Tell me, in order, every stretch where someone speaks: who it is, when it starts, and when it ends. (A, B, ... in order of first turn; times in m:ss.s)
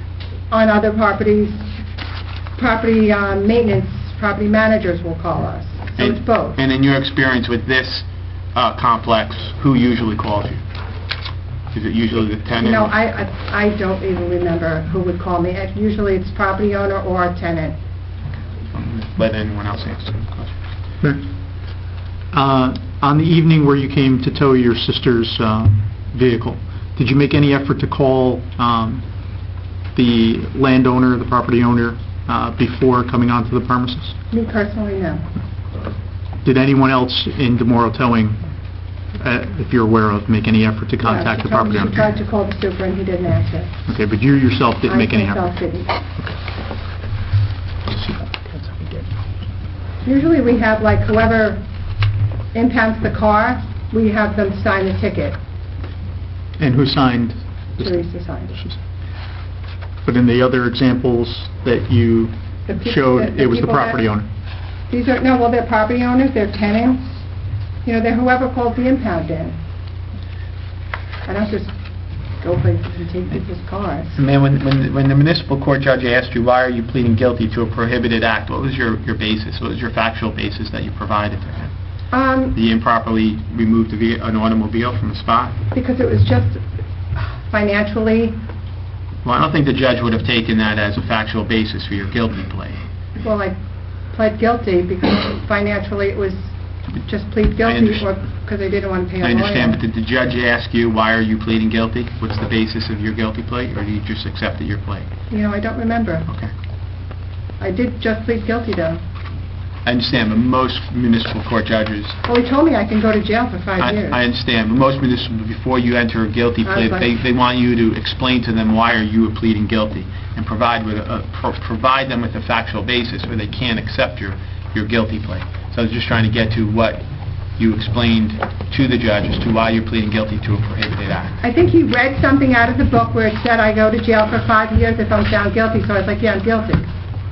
0:00.5-0:01.7 A
0:02.6-0:06.6 A
0:06.0-0:10.6 B
0:11.7-0:12.9 B
0:12.6-0:17.8 A
0:18.4-0:20.6 B
0:22.3-0:29.0 C
0:29.9-0:34.1 C
0:34.3-0:35.2 A
0:36.4-0:38.5 C
0:39.2-0:42.0 C
0:41.0-0:43.7 A
0:43.9-0:46.3 C
0:44.8-0:45.9 A
0:47.9-0:49.0 C
0:50.0-0:51.6 A
0:52.5-0:55.4 A
0:56.6-0:58.8 C
0:57.8-0:58.6 A
1:00.0-1:04.2 C
1:02.7-1:04.1 A
1:04.9-1:07.1 A
1:07.8-1:09.6 A
1:11.2-1:11.7 A
1:12.4-1:14.2 A
1:14.2-1:21.7 B
1:22.1-1:22.6 A
1:22.5-1:25.6 B
1:25.7-1:26.6 A
1:27.2-1:28.4 A
1:29.2-1:32.8 B
1:33.2-1:33.6 A
1:34.1-1:39.8 A
1:37.6-1:38.0 B
1:39.2-1:45.1 B
1:45.3-1:46.3 A
1:46.3-1:46.5 B
1:47.6-1:49.0 A
1:49.8-1:52.2 B
1:52.2-1:54.2 A
1:53.8-2:07.0 B
1:56.6-1:57.1 A
2:07.6-2:11.4 B
2:11.4-2:16.9 A